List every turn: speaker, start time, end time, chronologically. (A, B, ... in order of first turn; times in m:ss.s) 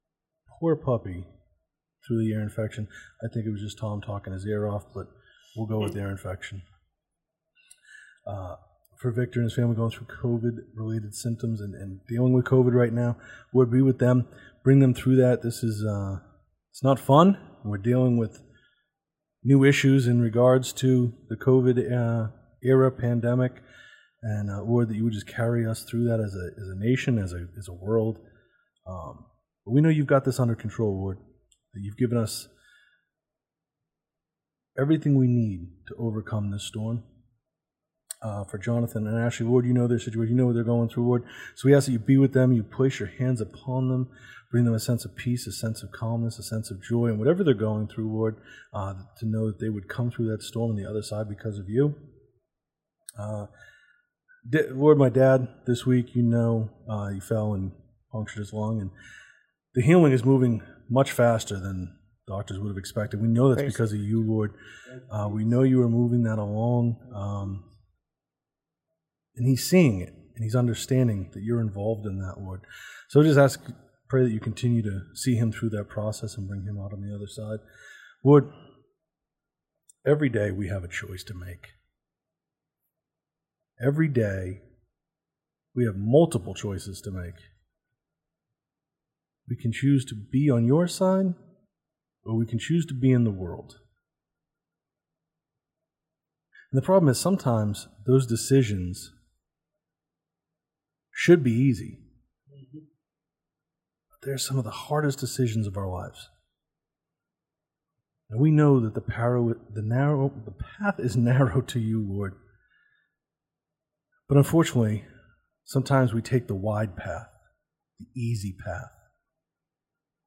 0:00.5-0:01.3 A
0:02.0-0:06.6 A
0:08.3-0:18.4 A
0:19.4-0:23.6 A
0:24.2-0:28.2 A
0:28.8-0:31.2 A
0:31.7-0:32.5 A
0:34.8-0:37.0 A
0:38.2-0:52.0 A
0:53.2-0:53.5 A
0:54.5-0:58.9 A
0:59.7-1:04.6 A
1:05.1-1:07.6 A
1:09.4-1:17.6 A
1:18.2-1:18.5 A
1:20.0-1:21.7 A
1:23.8-1:24.6 A
1:25.7-1:27.4 A
1:29.5-1:31.4 A
1:32.2-1:33.8 A
1:36.7-1:39.1 A
1:41.1-1:42.0 A
1:44.2-1:46.3 A
1:48.3-1:52.4 A
1:54.3-1:55.1 A
1:55.7-1:57.3 A
1:58.0-1:58.9 A